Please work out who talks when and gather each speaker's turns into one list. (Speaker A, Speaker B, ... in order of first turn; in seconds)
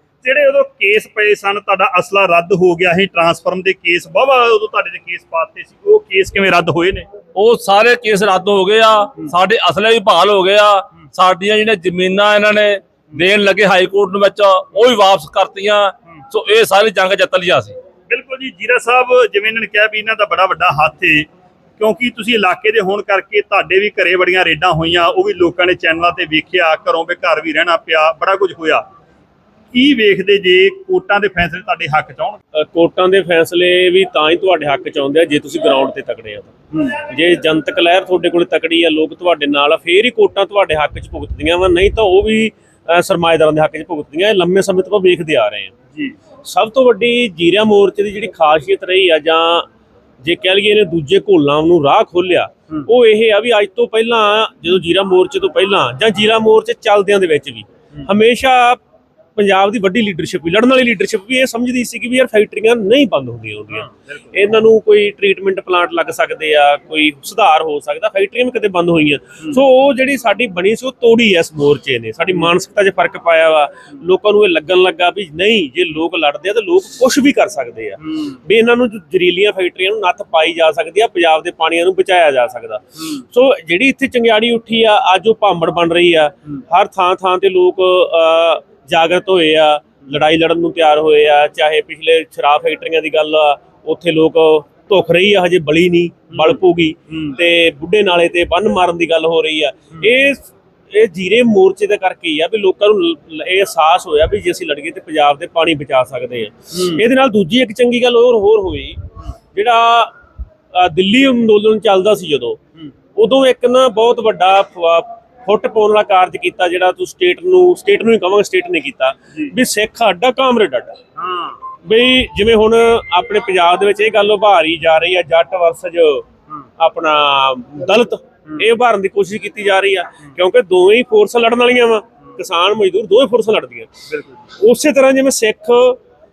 Speaker A: 0.2-7.1, 18.1-21.3, 21.8-28.9, 29.7-32.4, 96.3-96.6, 121.2-121.6
Speaker B: 7.3-17.8
Speaker C: 32.6-45.8, 46.5-49.7, 50.2-58.8, 59.4-109.0, 109.5-110.1, 110.7-112.6, 113.2-121.0, 121.8-126.2, 126.8-133.9, 134.6-136.0